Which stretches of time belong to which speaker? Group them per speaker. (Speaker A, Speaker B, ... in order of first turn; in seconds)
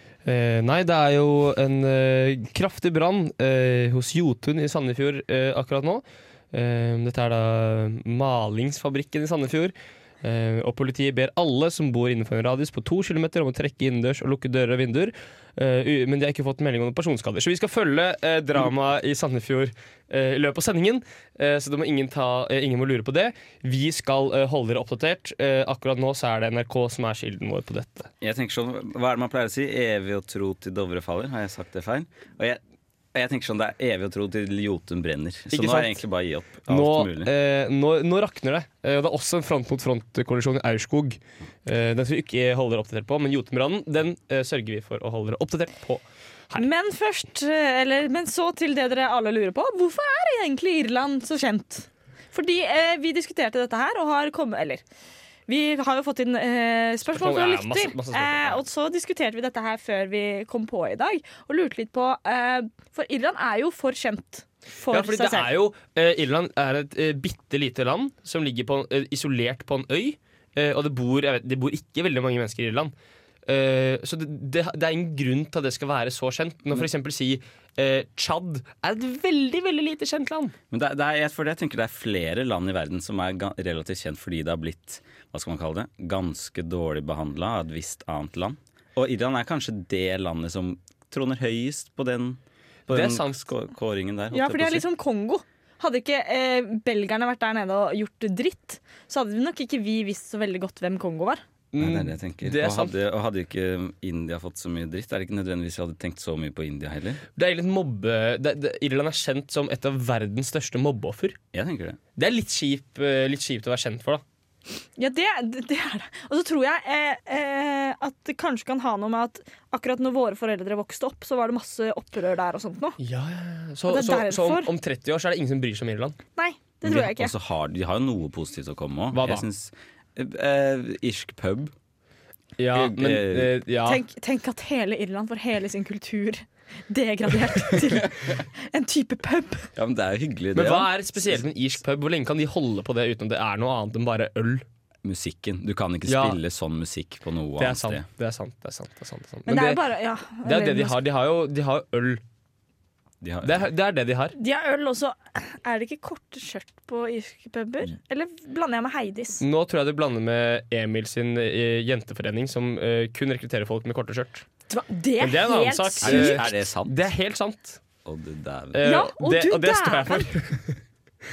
Speaker A: 0.2-28.1, 35.5-36.0, 36.6-46.6, 57.0-58.6, 64.9-72.9, 73.5-80.5, 92.9-93.5, 101.7-102.9, 107.4-111.4, 112.2-114.2, 123.0-126.2, 129.1-129.4, 132.6-134.0, 140.5-144.6, 146.1-146.4, 147.6-149.8, 150.4-152.2, 153.4-154.3, 159.4-164.4, 165.2-167.8, 168.7-170.8
Speaker B: 28.2-32.6, 33.1-37.3, 80.7-94.8, 101.8-107.2, 111.5-112.0, 126.8-131.7, 132.7-133.6, 137.7-138.4, 139.8-141.4, 145.0-148.0, 153.2-153.7, 166.0-167.1, 168.0-168.9
Speaker C: 46.6-54.8, 55.5-65.6, 94.3-101.4, 115.0-123.0, 123.9-124.7, 126.3-127.3, 133.8-139.7, 149.5-151.0, 154.4-159.4, 164.7-166.4, 168.8-170.3